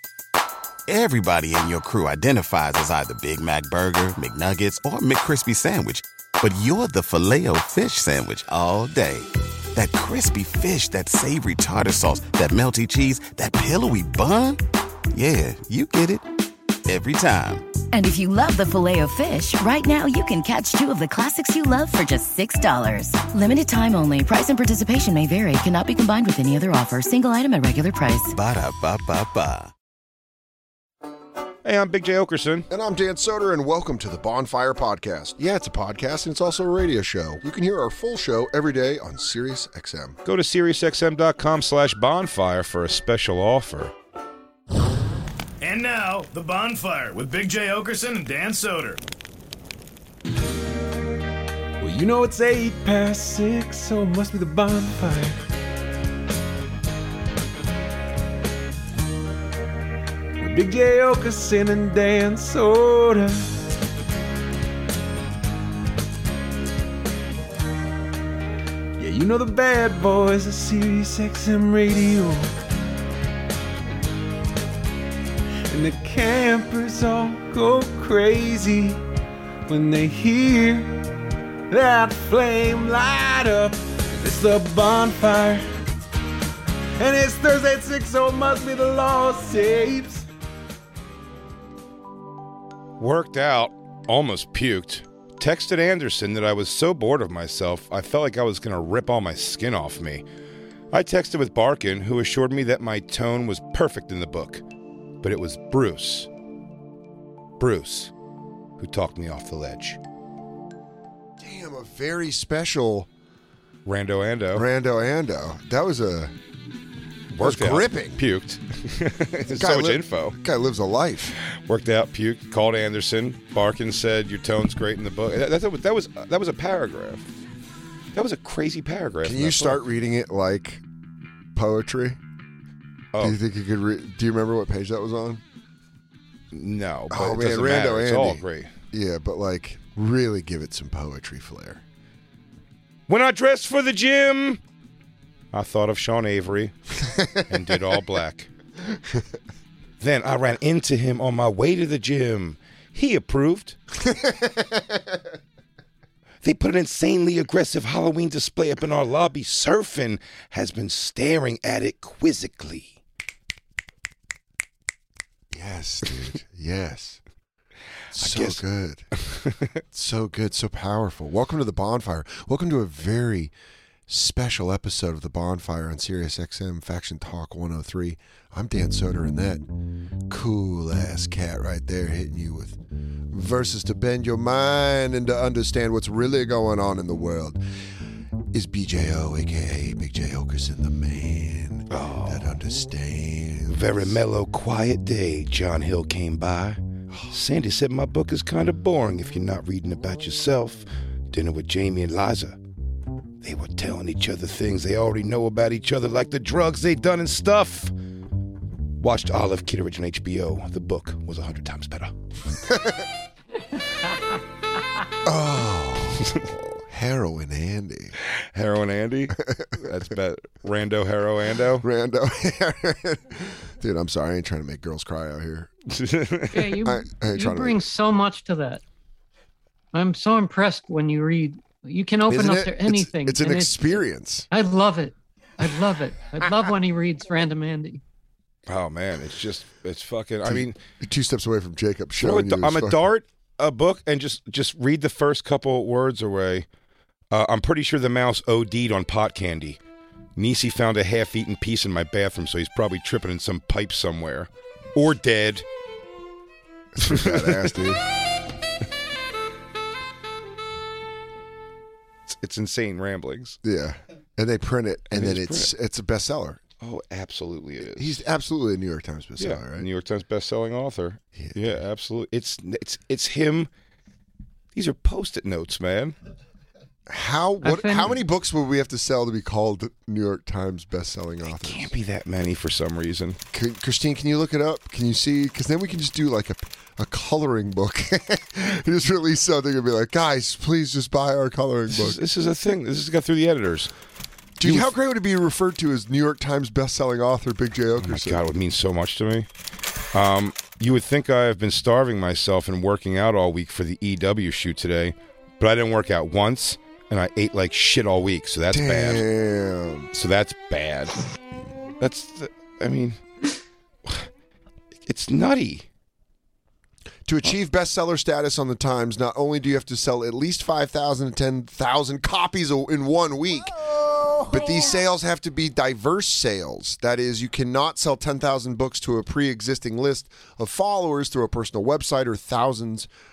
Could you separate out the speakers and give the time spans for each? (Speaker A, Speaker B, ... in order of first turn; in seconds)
Speaker A: 0.9-16.3, 16.9-17.6, 28.3-29.7
Speaker B: 17.9-28.3
Speaker C: 31.6-32.7, 40.2-43.9, 93.0-100.2, 100.9-104.6, 105.2-106.3, 107.6-108.1, 108.8-110.0, 113.8-114.7, 117.3-120.4, 121.5-127.2, 128.1-129.8, 136.5-138.7, 143.1-144.6, 145.5-146.7, 147.5-148.5, 150.0-153.8, 156.4-163.0, 168.2-168.6, 169.3-169.6, 191.9-192.6, 193.7-202.6, 203.4-207.9, 209.0-212.1, 218.5-221.9, 225.9-226.8, 238.7-240.8, 242.2-246.7, 247.3-249.8, 250.4-255.6, 257.0-257.7, 262.3-263.6, 265.1-265.7, 266.8-268.2, 269.4-273.7, 274.7-276.1, 281.5-283.4, 291.9-293.9, 294.6-294.9, 298.0-299.5, 300.1-309.2, 310.1-311.1, 312.0-313.2, 315.1-315.9
Speaker D: 32.7-40.2, 111.4-113.1, 114.5-116.3, 117.4-118.2, 119.5-121.4, 129.2-130.8, 131.6-132.2, 133.2-135.4, 137.1-141.8, 147.1-147.6, 154.0-154.9, 165.5-167.2, 168.1-169.1, 169.9-173.5, 174.1-179.7, 180.3-182.8, 183.3-187.6, 188.5-194.2, 212.6-213.1, 215.2-218.2, 219.4-219.9, 221.8-225.7, 226.8-227.8, 232.3-234.5, 240.4-243.0, 256.9-258.0, 263.6-266.6, 267.9-269.9, 271.4-271.7, 277.1-281.9, 283.5-292.2, 294.6-298.4, 308.7-310.1, 317.2-323.8, 324.4-333.1
Speaker E: 45.6-49.0
Speaker F: 51.8-55.4, 60.4-63.6, 69.0-72.5, 75.7-79.1, 79.7-81.0, 81.7-85.7, 87.0-90.3
Speaker G: 226.5-228.8, 229.9-233.9, 234.5-238.0, 277.6-278.1